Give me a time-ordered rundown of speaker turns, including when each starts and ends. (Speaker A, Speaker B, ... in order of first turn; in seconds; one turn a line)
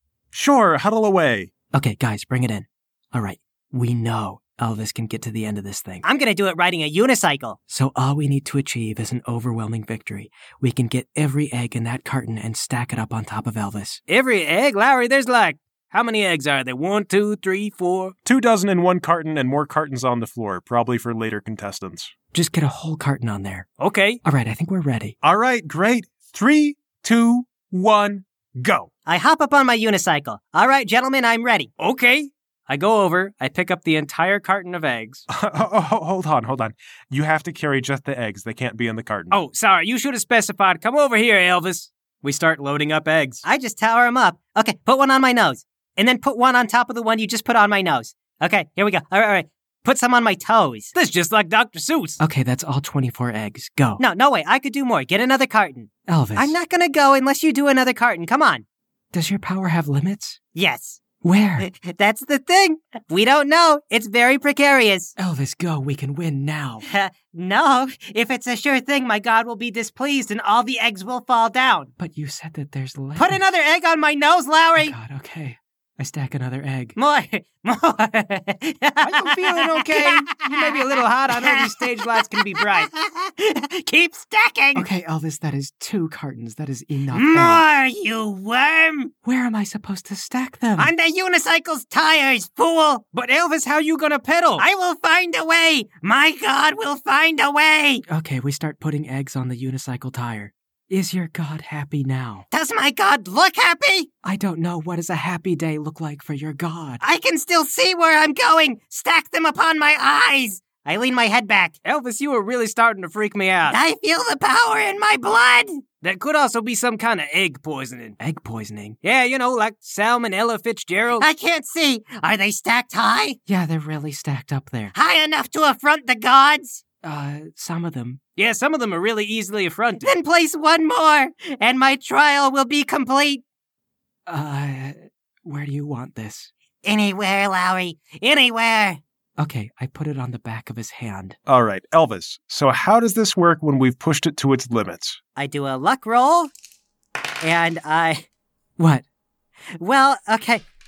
Speaker A: 0.3-1.5
Speaker B: 1.7-6.0
Speaker C: 6.0-7.6
Speaker B: 7.7-14.0
Speaker D: 14.1-18.1
Speaker A: 18.2-22.1
Speaker B: 22.3-23.7
Speaker D: 23.8-24.2
Speaker B: 24.2-25.1
Speaker A: 25.2-28.9
Speaker C: 29.1-31.7
Speaker D: 31.8-35.2
Speaker A: 35.3-39.3
Speaker D: 39.3-43.4
Speaker C: 43.4-50.9
Speaker D: 50.9-52.2
Speaker B: 52.2-54.0
Speaker C: 54.0-58.6
Speaker B: 56.1-56.5
Speaker B: 59.1-60.4
Speaker C: 60.5-61.0
Speaker B: 61.2-61.7
Speaker C: 61.6-65.1
Speaker B: 65.2-66.8
Speaker C: 66.9-71.9
Speaker B: 72.0-73.4
Speaker C: 73.2-74.9
Speaker B: 74.8-76.9
Speaker C: 77.0-80.8
Speaker D: 79.1-82.8
Speaker B: 79.2-80.3
Speaker C: 81.4-84.8
Speaker B: 84.7-87.6
Speaker C: 87.1-89.1
Speaker B: 89.2-90.9
Speaker C: 90.8-93.0
Speaker D: 93.1-94.6
Speaker C: 94.6-98.0
Speaker B: 98.1-102.5
Speaker C: 102.5-104.1
Speaker B: 104.2-107.0
Speaker C: 107.0-111.8
Speaker D: 111.8-113.8
Speaker C: 113.7-115.8
Speaker D: 116.0-118.2
Speaker B: 118.2-119.0
Speaker D: 119.0-121.2
Speaker C: 121.2-123.4
Speaker B: 123.5-124.9
Speaker C: 124.9-126.8
Speaker B: 127.0-128.2
Speaker D: 128.4-130.1
Speaker C: 130.0-133.4
Speaker B: 134.3-136.5
Speaker C: 136.8-139.0
Speaker B: 139.4-141.4
Speaker A: 141.4-145.2
Speaker C: 145.4-146.5
Speaker C: 147.4-148.2
Speaker B: 148.8-149.0
Speaker C: 149.8-150.6